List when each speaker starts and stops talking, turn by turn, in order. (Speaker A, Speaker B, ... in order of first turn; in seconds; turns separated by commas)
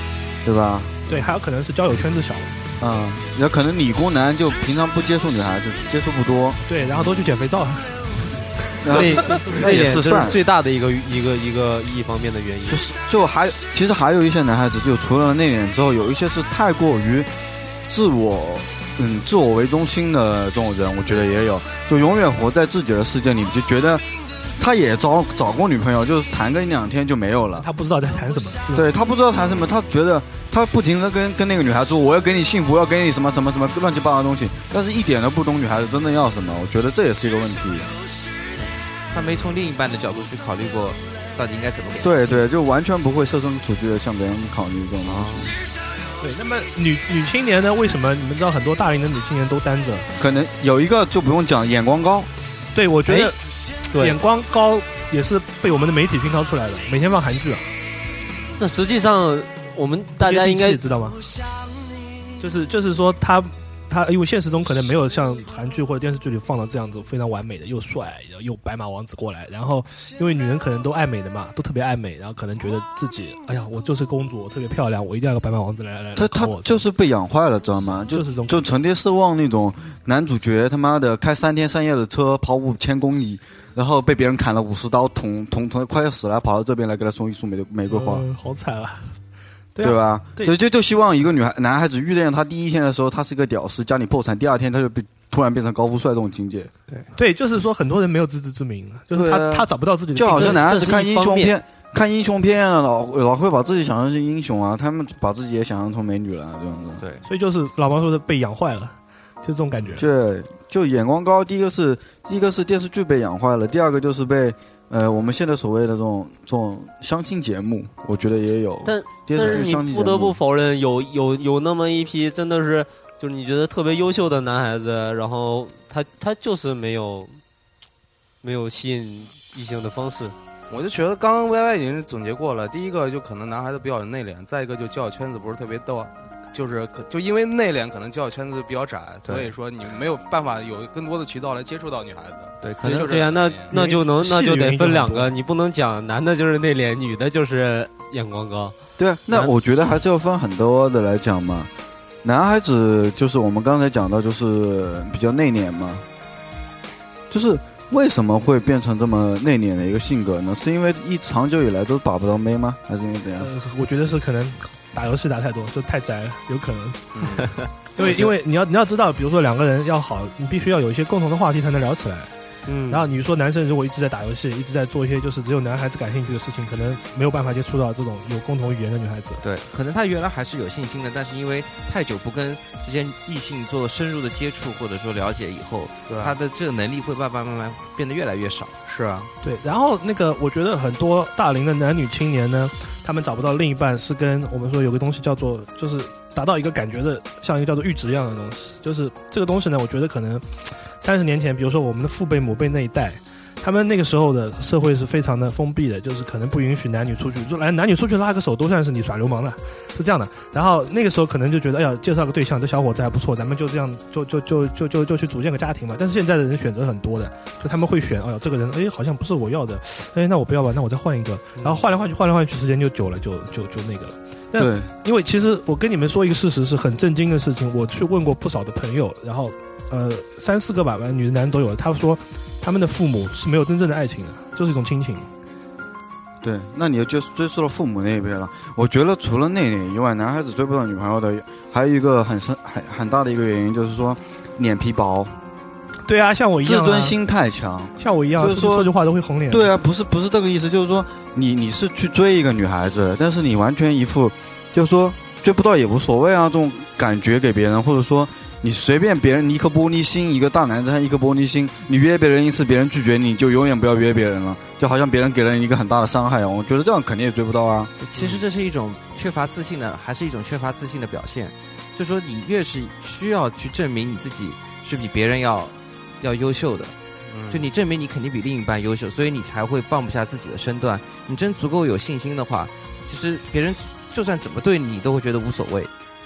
Speaker A: 0.4-1.1, Speaker B: 1.1-2.5, Speaker A: 2.8-6.6, Speaker B: 6.7-8.3, Speaker A: 8.8-10.4, Speaker C: 8.9-12.8, Speaker A: 12.7-17.3, Speaker A: 17.9-24.1, Speaker A: 24.6-27.7, Speaker B: 27.6-28.9, Speaker A: 28.7-37.9, Speaker D: 29.4-29.7, Speaker E: 38.6-42.4, Speaker A: 42.0-45.5, Speaker E: 45.1-45.5, Speaker B: 46.2-50.1, Speaker A: 50.2-52.3, Speaker B: 52.7-53.4, Speaker C: 53.0-53.3, Speaker C: 53.9-54.2, Speaker B: 53.9-57.7, Speaker C: 58.6-60.8, Speaker B: 60.2-61.2, Speaker B: 62.4-76.8, Speaker A: 76.2-88.2, Speaker B: 78.1-78.6, Speaker B: 87.9-89.2, Speaker B: 89.7-90.5, Speaker A: 89.8-96.7, Speaker B: 97.1-100.6, Speaker A: 99.1-107.0, Speaker C: 100.3-101.5, Speaker B: 107.2-110.1, Speaker A: 110.0-120.4, Speaker C: 118.8-127.4, Speaker C: 128.4-130.3, Speaker D: 130.7-143.7, Speaker E: 139.2-139.5, Speaker E: 142.6-143.2, Speaker C: 142.8-148.8, Speaker B: 143.7-145.3, Speaker A: 149.0-151.7, Speaker A: 152.2-156.0, Speaker A: 157.3-163.5, Speaker B: 163.4-167.4, Speaker D: 167.2-167.5, Speaker B: 168.0-172.3, Speaker C: 172.7-173.0, Speaker B: 172.9-179.4, Speaker E: 179.4-188.8, Speaker D: 186.1-186.3, Speaker D: 188.8-189.3, Speaker B: 189.4-235.3, Speaker A: 224.5-224.9, Speaker A: 236.4-245.3, Speaker B: 246.1-247.2, Speaker A: 246.6-248.9, Speaker B: 248.0-249.7, Speaker A: 249.5-267.9, Speaker E: 268.0-276.9, Speaker D: 268.1-268.4, Speaker D: 277.3-277.7, Speaker E: 277.5-285.9